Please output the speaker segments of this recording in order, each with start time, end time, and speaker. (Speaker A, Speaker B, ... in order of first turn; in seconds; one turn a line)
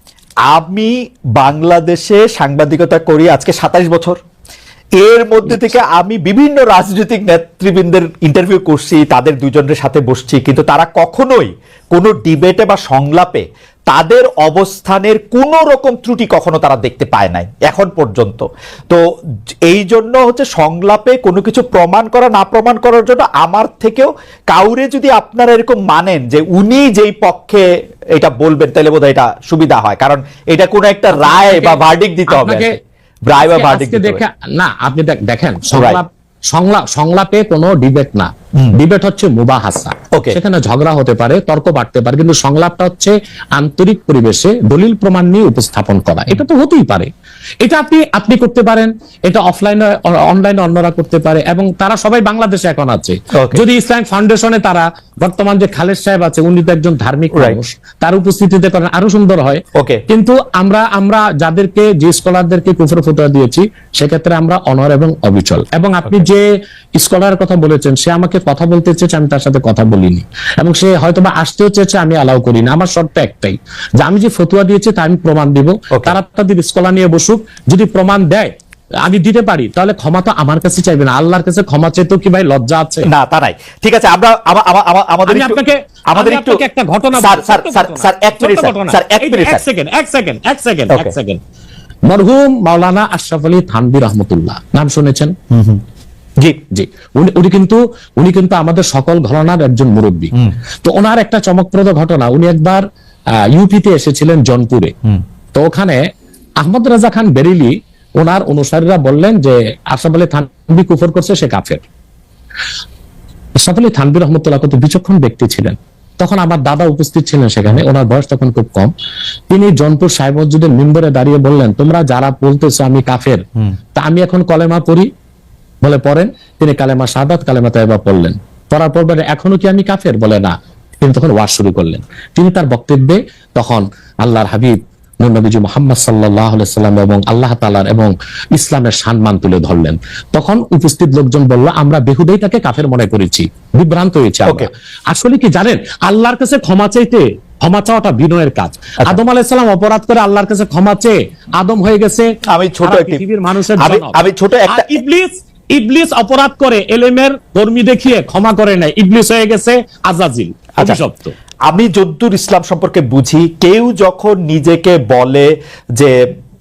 Speaker A: 0.5-4.2
Speaker A: 5.0-19.0
Speaker A: 19.7-34.2
Speaker B: 31.1-32.8
Speaker B: 33.3-47.1
Speaker A: 35.7-36.0
Speaker B: 47.6-78.5
Speaker A: 53.3-53.6
Speaker A: 59.8-60.0
Speaker B: 79.0-83.1
Speaker A: 83.1-86.6
Speaker B: 85.3-91.4
Speaker A: 87.2-89.6
Speaker A: 90.9-91.2
Speaker B: 92.1-95.3
Speaker A: 95.5-95.8
Speaker B: 96.7-102.8
Speaker B: 103.5-104.9
Speaker B: 105.5-106.0
Speaker B: 106.6-111.8
Speaker B: 113.6-118.9
Speaker B: 119.5-123.4
Speaker B: 124.0-125.1
Speaker B: 125.8-152.3
Speaker A: 152.5-153.2
Speaker B: 152.8-161.3
Speaker A: 153.8-155.0
Speaker A: 161.7-166.2